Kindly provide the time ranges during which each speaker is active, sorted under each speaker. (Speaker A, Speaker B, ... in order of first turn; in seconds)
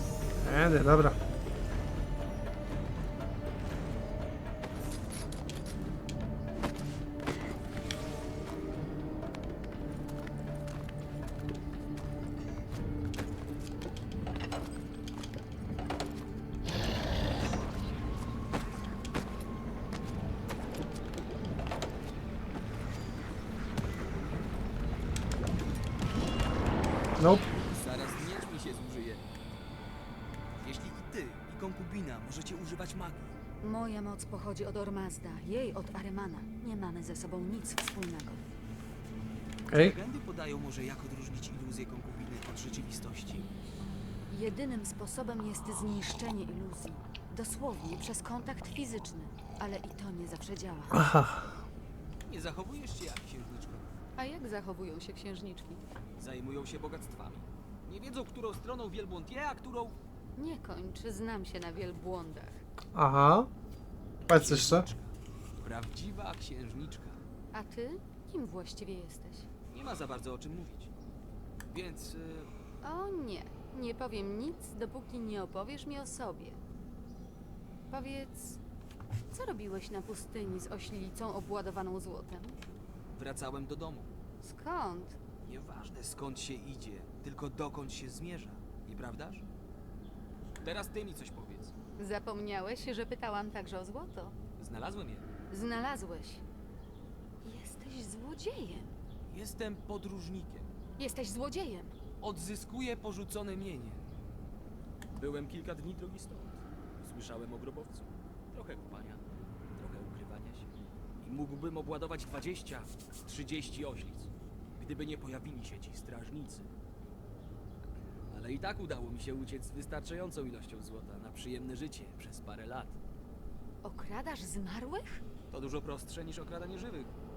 Speaker A: 0.4-1.2, 27.2-27.5, 39.7-39.9, 51.0-51.4, 62.9-63.5, 64.3-64.8
Speaker B: 27.7-29.3, 30.6-33.4, 39.7-43.5, 52.2-53.9, 56.1-60.0, 64.3-67.2, 69.7-70.9, 71.7-72.5, 83.1-84.1, 85.4-89.5, 90.6-91.7, 94.6-95.2, 99.3-100.7, 102.2-104.0, 105.1-109.2, 109.7-116.7, 118.3-122.9, 125.5-127.1
Speaker C: 33.6-38.4, 44.3-51.1, 54.1-55.8, 60.4-62.6, 67.5-69.5, 72.8-76.6, 77.9-78.6, 79.3-82.6, 84.4-85.2, 92.0-94.4, 95.5-96.4, 97.4-98.9, 101.0-102.0, 123.8-125.2